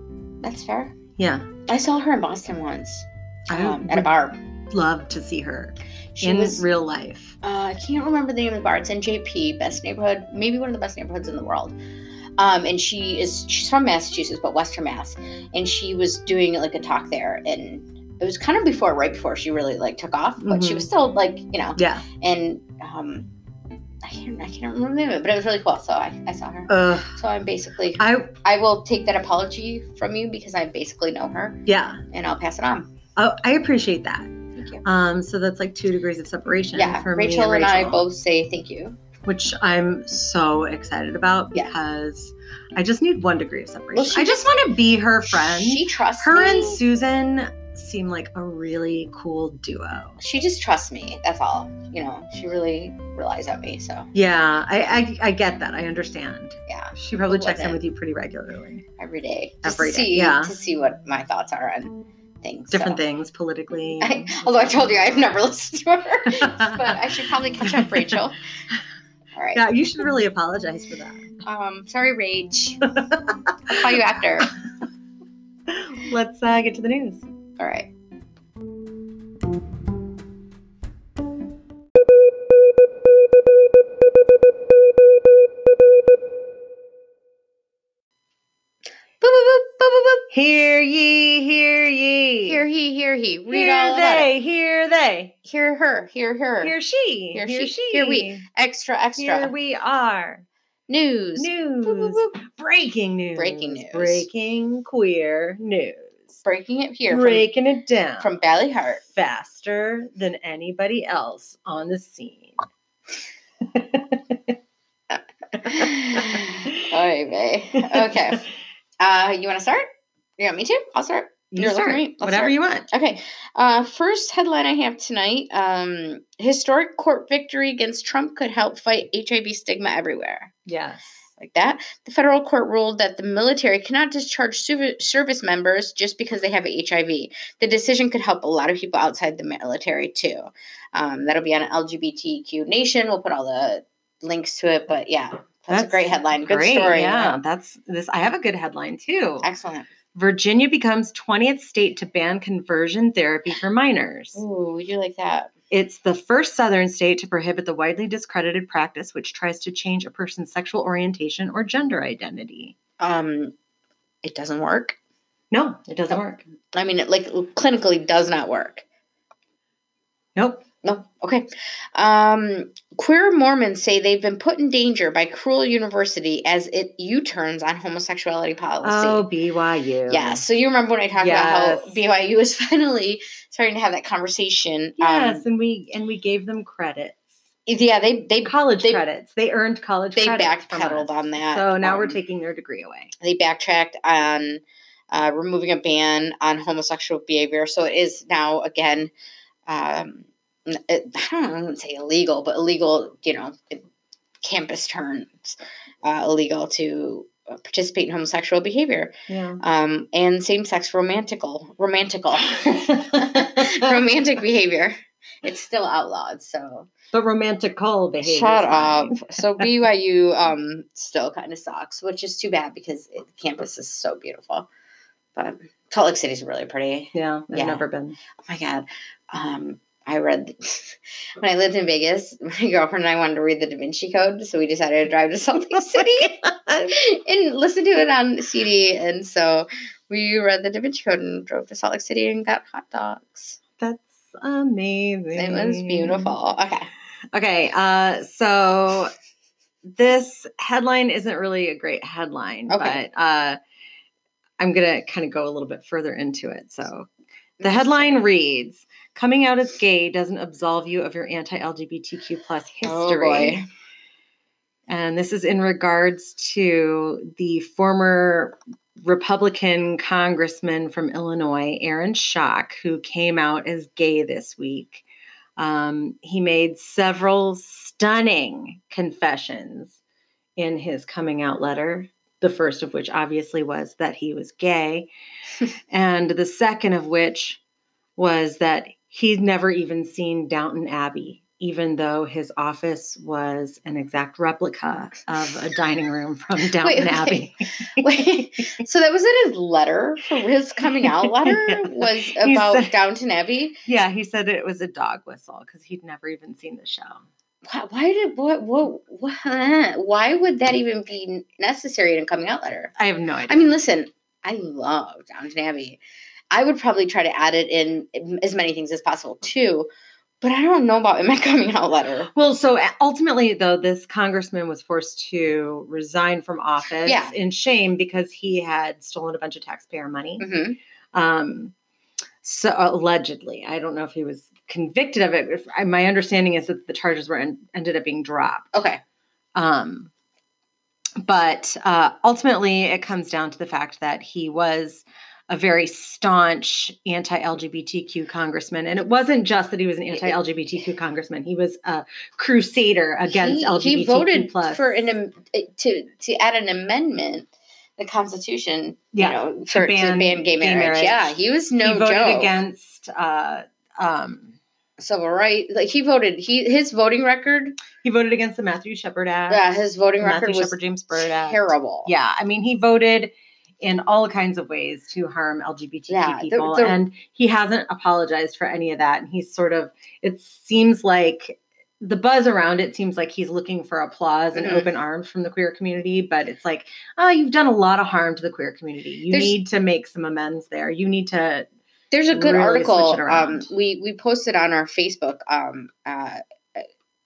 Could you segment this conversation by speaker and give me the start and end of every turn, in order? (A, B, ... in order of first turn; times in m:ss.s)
0:00.4-0:01.0 A
0:01.2-0:01.5 B
0:01.6-0:04.4 A
0:03.5-0:04.1 B
0:04.7-0:07.3 B
0:06.1-0:06.6 A
0:07.4-0:11.7 A
0:12.4-0:23.3 A
0:20.4-0:20.9 B
0:21.8-0:22.0 B
0:24.0-0:32.9 A
0:26.7-0:27.1 B
0:28.0-0:28.3 B
0:31.6-0:32.0 B
0:33.2-0:34.3 B
0:34.6-0:34.8 A
0:34.8-0:38.0 B
0:36.7-0:39.0 A
0:39.2-0:50.2 B
0:43.9-0:44.7 A
0:45.3-0:46.8 A
0:50.2-0:54.1 A
0:54.1-0:58.8 B
0:56.7-0:57.8 A
0:59.0-1:03.0 A
0:59.6-1:00.5 B
1:02.7-1:04.9 B
1:04.0-1:08.4 A
1:06.3-1:08.2 B
1:09.3-1:09.6 A
1:09.5-1:11.2 B
1:11.4-1:12.9 A
1:13.7-1:14.6 A
1:15.7-1:17.2 B
1:17.6-1:17.9 A
1:29.2-1:30.2 A
1:30.3-1:32.6 B
1:32.4-1:34.3 A
1:33.5-1:35.3 B
1:35.4-1:36.8 A
1:36.6-1:38.4 B
1:37.3-1:39.5 A
1:39.2-1:40.4 B
1:40.9-1:42.3 A
1:41.4-1:46.4 B
1:43.4-1:44.2 A
1:46.4-1:47.4 A
1:47.1-1:48.3 B
1:48.2-1:49.0 A
1:49.0-1:52.6 B
1:53.7-1:54.5 B
1:55.6-1:58.5 A
1:57.9-1:58.2 B
1:59.0-1:59.8 A
2:00.4-2:10.5 A
2:01.5-2:02.9 B
2:10.6-2:11.2 B
2:11.4-2:27.4 A
2:25.7-2:29.4 B
2:29.4-2:29.9 A
2:30.1-2:34.4 B
2:34.3-2:35.5 A
2:35.7-2:42.7 B
2:43.0-2:43.5 A
2:44.2-2:45.0 A
2:45.5-2:46.4 B
2:46.7-2:48.8 A
2:50.4-2:50.6 B
2:50.8-2:59.3 A
2:58.8-3:00.4 B
3:00.1-3:05.4 A
3:01.2-3:02.0 B
3:05.0-3:07.2 B
3:07.7-3:09.0 A
3:08.4-3:13.1 B
3:10.2-3:12.2 A
3:13.2-3:19.1 A
3:19.7-3:23.8 A
3:24.4-3:36.9 A
3:29.3-3:29.6 B
3:32.6-3:34.0 B
3:37.1-3:39.6 B
3:38.2-3:44.7 A
3:45.4-3:47.8 A
3:47.1-3:48.2 B
3:48.4-4:03.6 A
3:55.7-3:56.9 B
4:03.8-4:06.3 B
4:05.3-4:06.9 A
4:07.3-4:09.1 B
4:09.8-4:13.6 B
4:12.7-4:13.0 A
4:14.6-4:17.1 B
4:17.6-4:18.2 A
4:17.6-4:23.6 B
4:22.8-4:23.6 A
4:24.9-4:35.0 B
4:35.6-4:40.0 B
4:40.6-4:45.1 B
4:45.9-4:47.6 B
4:48.2-4:58.4 B
4:56.8-5:03.8 A
5:00.8-5:02.9 B
5:03.8-5:07.2 B
5:07.6-5:12.9 A
5:13.0-5:13.7 B
5:13.5-5:16.0 A
5:16.5-5:19.9 A
5:20.4-5:22.3 A
5:22.3-5:30.4 B
5:27.0-5:27.3 A
5:30.4-5:30.8 A
5:31.1-5:31.7 B
5:32.4-5:38.7 B
5:38.7-5:39.0 A
5:39.5-5:40.1 B
5:41.2-5:55.1 B
5:53.3-6:02.5 A
5:59.1-6:04.6 B
6:05.0-6:07.8 A
6:08.0-6:09.6 B
6:09.5-6:12.1 A
6:10.2-6:31.7 B
6:16.1-6:17.0 A
6:24.5-6:24.9 A
6:29.3-6:29.6 A
6:32.1-6:36.8 A
6:32.3-6:33.7 B